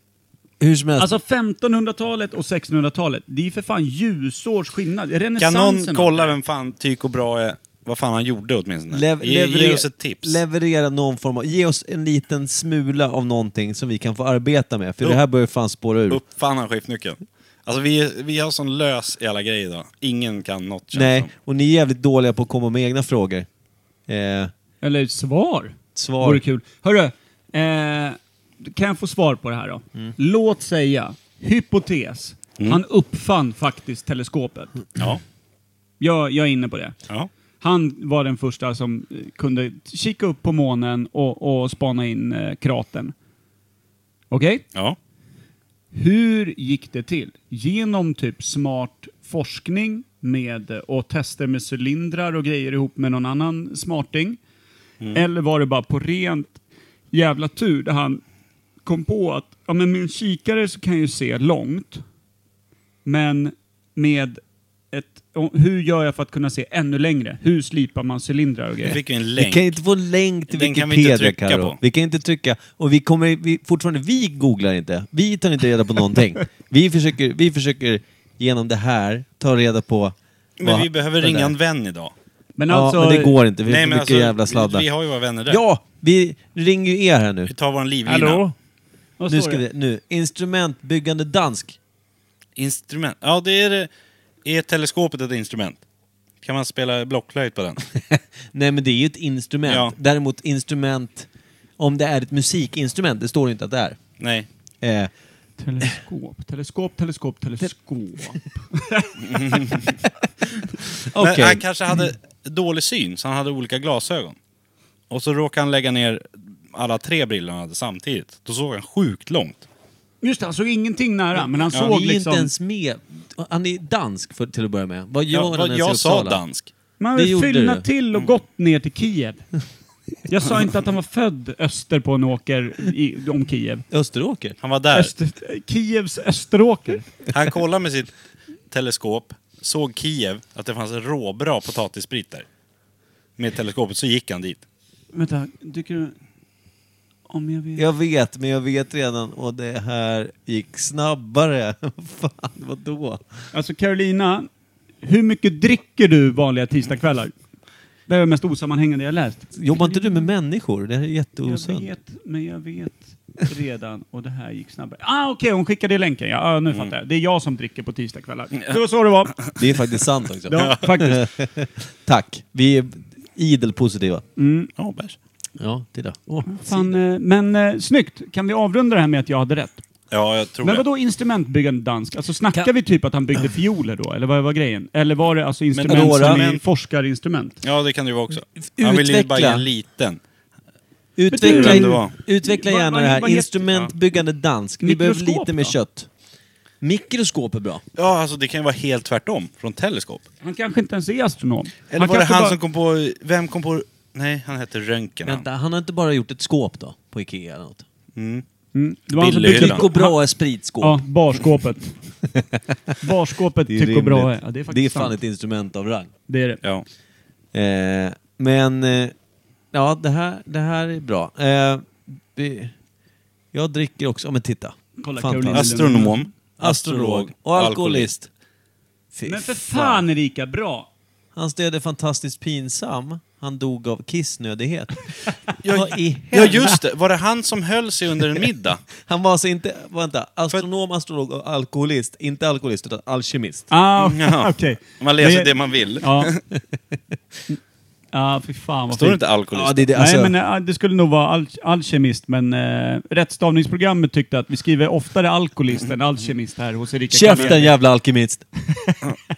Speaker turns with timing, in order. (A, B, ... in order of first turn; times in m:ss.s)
0:00.6-0:01.1 A
0:01.0-0:06.3 B
0:05.4-0:10.4 C
0:08.9-0:16.2 A
0:16.1-0:21.3 C
0:20.9-0:23.5 A
0:24.1-0:24.5 A
0:24.8-0:34.8 B
0:25.9-0:26.4 A
0:36.0-0:36.9 B
0:37.6-0:43.1 B
0:44.3-0:44.6 B
0:45.9-0:54.4 B
0:55.1-0:56.6 B
0:57.1-0:58.2 B
0:58.8-1:02.0 B
1:03.0-1:09.0 B
1:08.8-1:09.7 C
1:09.4-1:21.5 A
1:10.5-1:11.8 C
1:20.6-1:22.1 C
1:22.6-1:23.4 B
1:22.7-1:24.8 A
1:23.6-1:25.6 C
1:25.5-1:27.5 A
1:27.5-1:28.4 C
1:28.0-1:28.5 A
1:29.2-1:29.6 B
1:29.3-1:31.8 A
1:32.6-1:33.9 C
1:34.4-1:35.8 C
1:36.4-1:37.8 C
1:38.1-1:44.0 A
1:39.6-1:39.9 C
1:44.2-1:44.5 C
1:44.8-1:45.1 A
1:45.6-1:49.8 B
1:49.3-1:49.8 C
1:51.0-1:51.6 A
1:51.2-1:54.4 C
1:55.1-1:59.6 C
2:00.2-2:02.5 B
2:01.4-2:06.4 A
2:05.3-2:06.7 C
2:07.0-2:09.4 B
2:07.1-2:07.8 A
2:10.2-2:13.8 B
2:13.9-2:14.6 A
2:14.6-2:15.1 C
2:14.9-2:17.1 B
2:17.3-2:18.1 C
2:18.7-2:22.4 C
2:23.4-2:24.6 C
2:25.1-2:26.2 B
2:27.3-2:27.8 B
2:27.8-2:33.2 A
2:33.5-2:34.5 B
2:35.0-2:37.3 B
2:38.1-2:40.2 B
2:39.5-2:41.9 A
2:41.4-2:49.5 B
2:49.6-2:54.2 A
2:50.5-2:51.2 B
2:54.4-2:54.7 B
2:54.8-2:55.2 C
2:55.6-2:57.0 A
2:56.4-2:59.8 B
3:00.1-3:00.8 C
3:00.6-3:07.6 B
3:05.7-3:06.6 C
3:05.9-3:06.5 A
3:07.6-3:10.2 C
3:08.6-3:09.6 A
3:11.2-3:16.1 A
3:11.3-3:13.6 B
3:11.4-3:12.1 C
3:14.8-3:15.8 B
3:16.8-3:17.8 A
3:18.0-3:20.2 C
3:20.4-3:22.6 B
3:21.9-3:25.4 C
3:25.2-3:27.8 A
3:28.2-3:28.4 C
3:28.7-3:30.2 B
3:29.2-3:29.8 C
3:29.3-3:31.0 A
3:30.8-3:31.9 B
3:32.3-3:32.6 A
3:33.0-3:35.2 B
3:33.6-3:36.1 A
3:36.3-3:36.6 B
3:37.5-3:39.1 A
3:39.7-3:42.7 A
3:43.5-3:45.8 A
3:45.0-3:46.3 B
3:45.5-3:48.1 C
3:46.6-3:48.3 A
3:49.1-3:50.1 A
3:49.2-3:50.9 B
3:51.3-3:56.8 A
3:55.6-3:58.8 C
3:59.0-4:03.7 A
4:03.7-4:06.3 B
4:04.0-4:06.4 C
4:08.1-4:09.2 B
4:08.9-4:09.9 C
4:09.5-4:10.3 A
4:09.9-4:17.7 B
4:17.1-4:18.4 A
4:17.3-4:17.6 C